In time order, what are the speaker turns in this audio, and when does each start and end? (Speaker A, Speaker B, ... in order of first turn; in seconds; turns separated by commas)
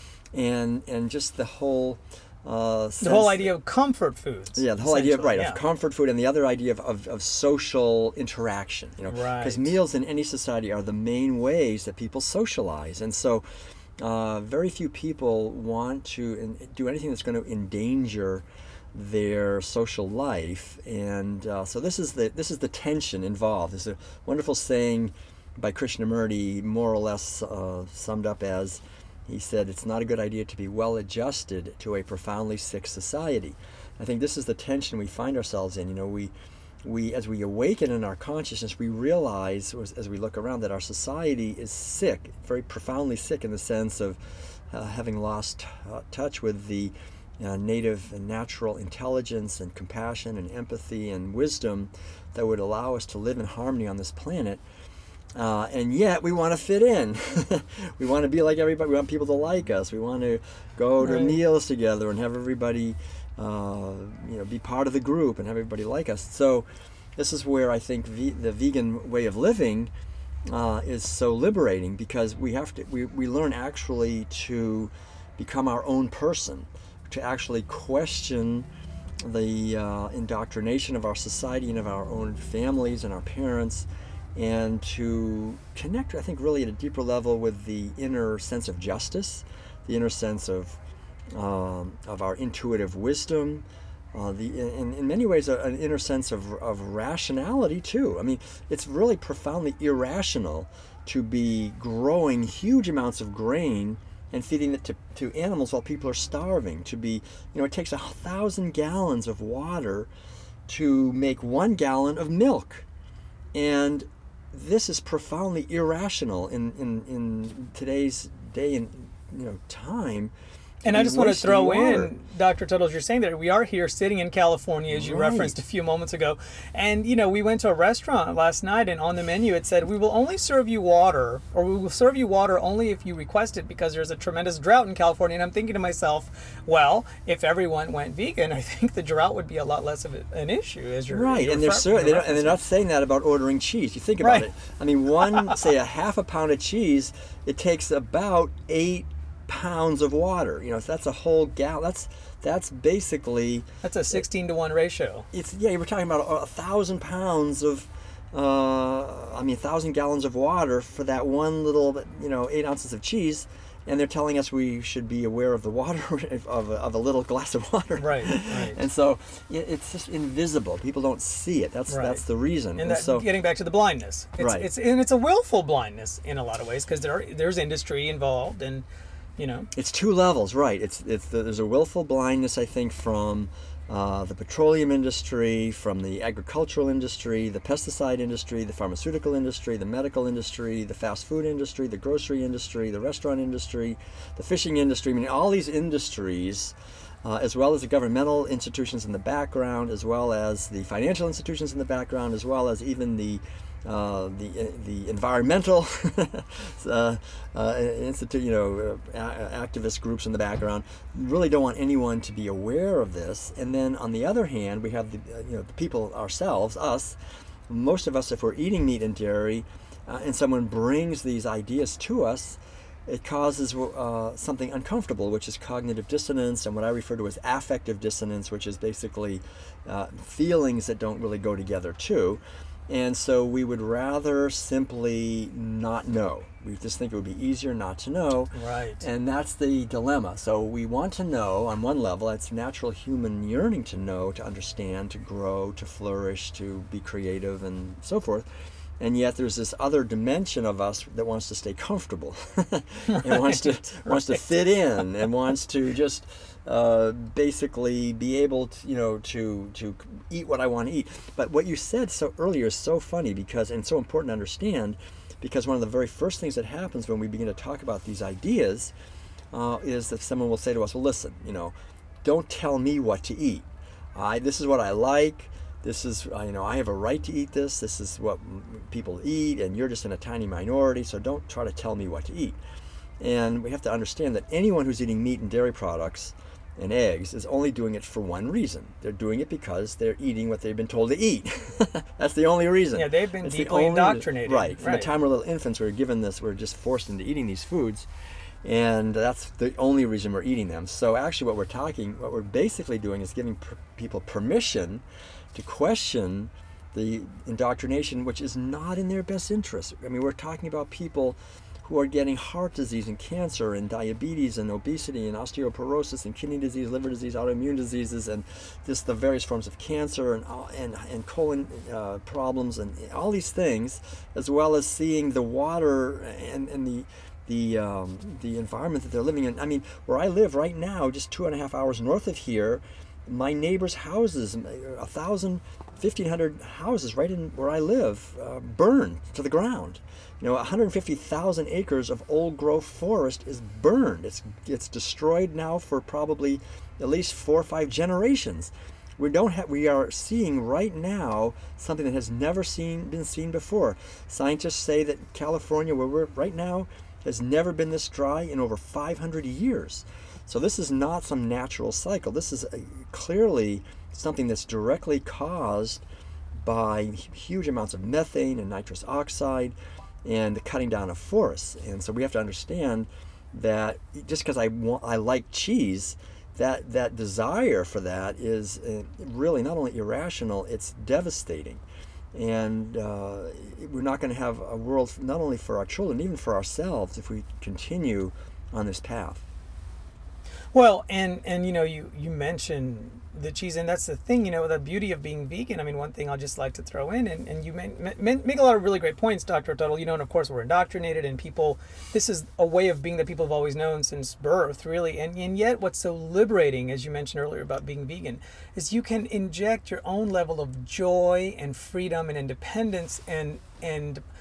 Speaker A: 0.3-3.5, Speaker B: 3.0-5.6, Speaker A: 4.5-13.4, Speaker B: 9.1-9.8, Speaker A: 14.0-54.6, Speaker A: 55.3-69.9, Speaker B: 61.0-61.4, Speaker A: 70.5-78.7, Speaker A: 79.2-90.8, Speaker A: 91.3-110.1, Speaker A: 110.7-112.8, Speaker A: 113.5-120.3, Speaker A: 120.8-122.1, Speaker B: 120.8-142.6, Speaker A: 124.9-125.5, Speaker A: 141.1-154.2, Speaker B: 144.2-144.4, Speaker B: 145.3-145.5, Speaker B: 153.8-155.3, Speaker A: 155.3-173.3, Speaker B: 168.0-168.8, Speaker B: 171.9-172.2, Speaker B: 172.8-178.8, Speaker A: 174.4-174.7, Speaker B: 179.4-179.7, Speaker A: 179.7-248.5, Speaker B: 238.5-239.0, Speaker A: 249.0-268.9, Speaker B: 253.1-254.5, Speaker A: 269.5-282.6, Speaker A: 283.2-298.1, Speaker B: 292.9-295.1, Speaker A: 298.6-366.0, Speaker A: 366.6-381.8, Speaker A: 382.3-389.4, Speaker B: 390.7-414.2